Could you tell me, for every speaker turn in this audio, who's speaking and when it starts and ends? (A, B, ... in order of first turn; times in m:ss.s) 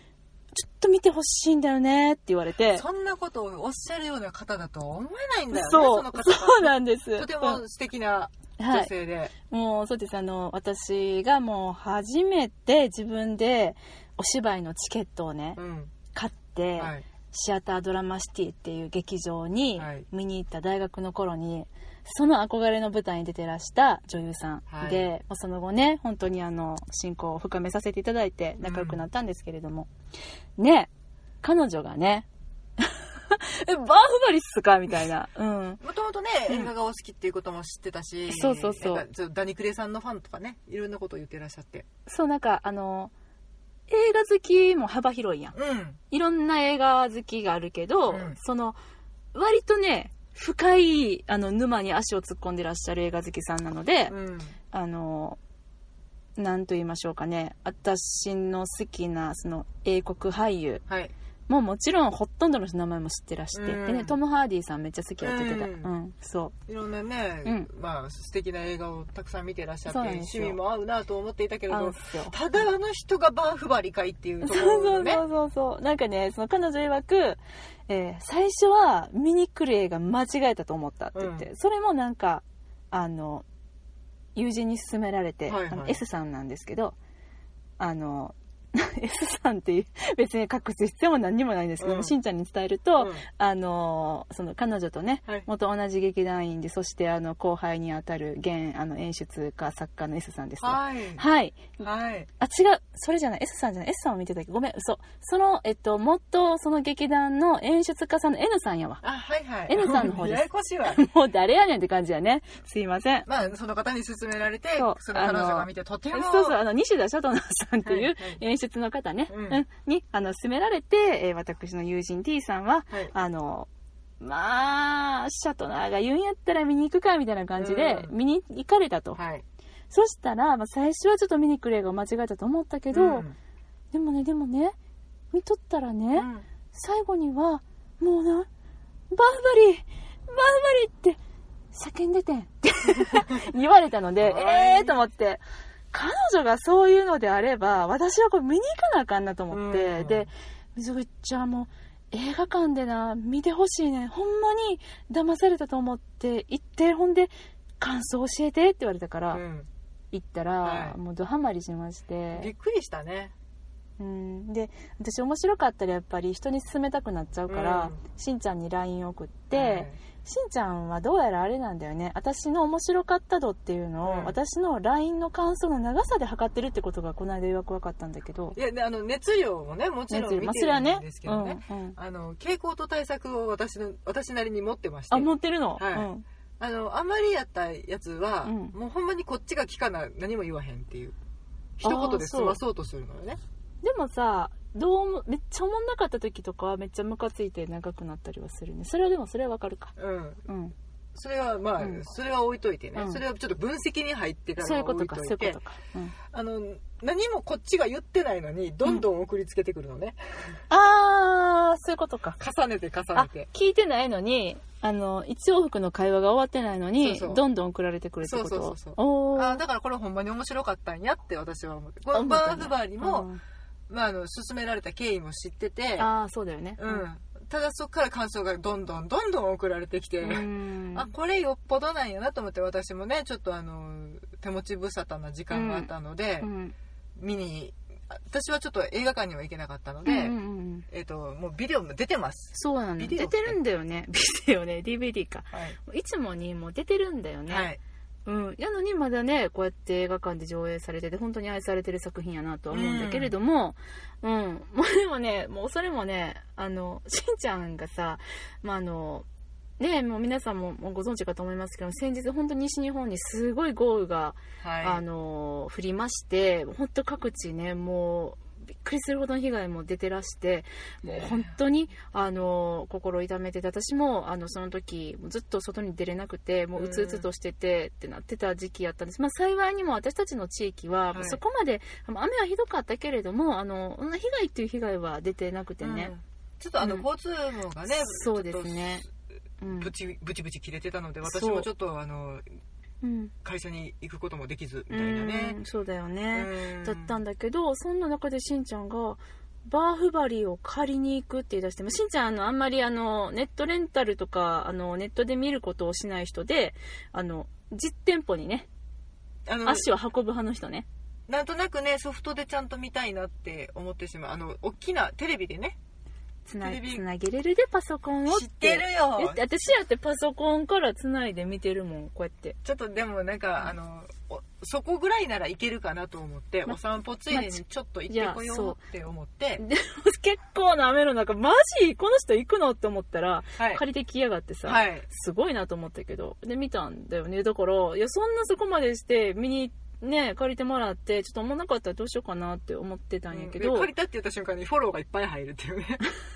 0:00.5-0:02.8 A
0:02.7-0:09.3 B
0:05.5-0:07.6 A
0:08.6-0:08.9 A
0:09.5-0:15.6 A
0:15.6-0:15.9 B
0:16.1-0:29.9 A
0:16.8-0:17.0 B
0:19.8-0:20.0 B
0:24.7-0:25.1 B
0:28.6-0:29.0 B
0:30.6-0:30.9 A
0:31.4-0:32.3 A
0:32.8-0:35.8 A
0:35.8-0:41.8 B
0:38.3-0:39.0 A
0:42.1-0:43.1 A
0:43.9-0:45.5 A
0:45.5-0:46.0 B
0:46.1-0:48.8 A
0:48.1-0:48.4 B
0:49.3-0:54.1 A
0:54.1-0:54.6 B
0:54.7-0:55.4 A
0:56.4-1:00.8 A
1:00.9-1:01.1 B
1:01.5-1:06.5 A
1:03.5-1:04.2 B
1:05.2-1:05.9 B
1:06.7-1:15.2 B
1:09.9-1:10.6 A
1:11.7-1:12.3 A
1:14.4-1:23.4 A
1:21.1-1:21.5 B
1:24.4-1:26.9 A
1:25.5-1:26.0 B
1:27.8-1:41.8 A
1:31.8-1:32.1 B
1:33.0-1:33.2 B
1:40.6-1:41.2 B
1:41.8-1:42.3 B
1:42.4-1:49.0 A
1:49.0-1:51.0 B
1:49.7-1:53.3 A
1:53.2-1:56.6 B
1:54.8-2:03.7 A
1:57.8-1:58.4 B
1:59.3-1:59.6 B
2:04.2-2:09.2 A
2:07.6-2:08.1 B
2:09.2-2:09.4 B
2:09.9-2:13.2 A
2:12.9-2:13.4 B
2:13.9-2:14.8 A
2:15.3-2:18.5 A
2:16.2-2:16.4 B
2:19.1-2:21.2 A
2:21.7-2:39.4 A
2:22.9-2:23.4 B
2:24.2-2:25.0 B
2:29.5-2:30.3 B
2:39.3-2:39.7 B
2:40.1-2:42.5 A
2:40.6-2:41.0 B
2:42.3-2:43.3 B
2:44.0-2:58.6 A
2:47.5-2:48.0 B
2:49.5-2:50.0 B
2:54.0-2:54.4 B
2:58.5-3:11.2 B
3:00.1-3:02.0 A
3:05.1-3:06.2 A
3:08.4-3:08.8 A
3:11.8-3:13.4 B
3:11.8-3:12.6 A
3:13.8-3:19.9 A
3:20.0-3:20.4 B
3:20.5-3:20.7 A
3:21.1-3:25.6 B
3:23.0-3:23.2 A
3:24.6-3:26.2 A
3:26.3-3:30.6 B
3:30.7-3:32.4 A
3:32.4-3:33.5 B
3:33.1-3:39.6 A
3:37.0-3:37.4 B
3:38.2-3:43.3 B
3:42.1-3:43.4 A
3:43.9-3:46.1 B
3:46.0-3:47.0 A
3:46.8-3:56.5 B
3:50.2-3:51.1 A
3:55.5-3:56.7 A
3:57.2-4:00.4 B
4:00.0-4:00.8 A
4:00.9-4:03.6 B
4:02.5-4:07.7 A
4:05.5-4:05.8 B
4:07.5-4:07.8 B
4:08.2-4:19.2 A
4:12.7-4:13.3 B
4:19.8-4:46.1 A
4:24.6-4:25.0 B
4:31.0-4:31.5 B
4:36.7-4:37.3 B
4:41.1-4:41.4 B
4:45.8-4:49.0 B
4:46.8-4:47.0 A
4:47.9-4:49.0 A
4:49.6-4:49.9 A
4:49.8-4:52.4 B
4:51.2-4:51.7 A
4:53.0-4:53.3 A
4:53.4-4:55.6 B
4:54.9-5:08.7 A
4:56.3-4:57.2 B
5:09.4-5:09.9 B
5:09.6-5:10.8 A
5:11.3-5:15.8 B
5:16.4-5:22.6 A
5:16.6-5:17.0 B
5:18.3-5:19.4 B
5:22.6-5:29.6 B
5:27.3-5:28.8 A
5:29.6-5:43.9 A
5:33.6-5:33.8 B
5:34.6-5:35.0 B
5:43.3-5:46.1 B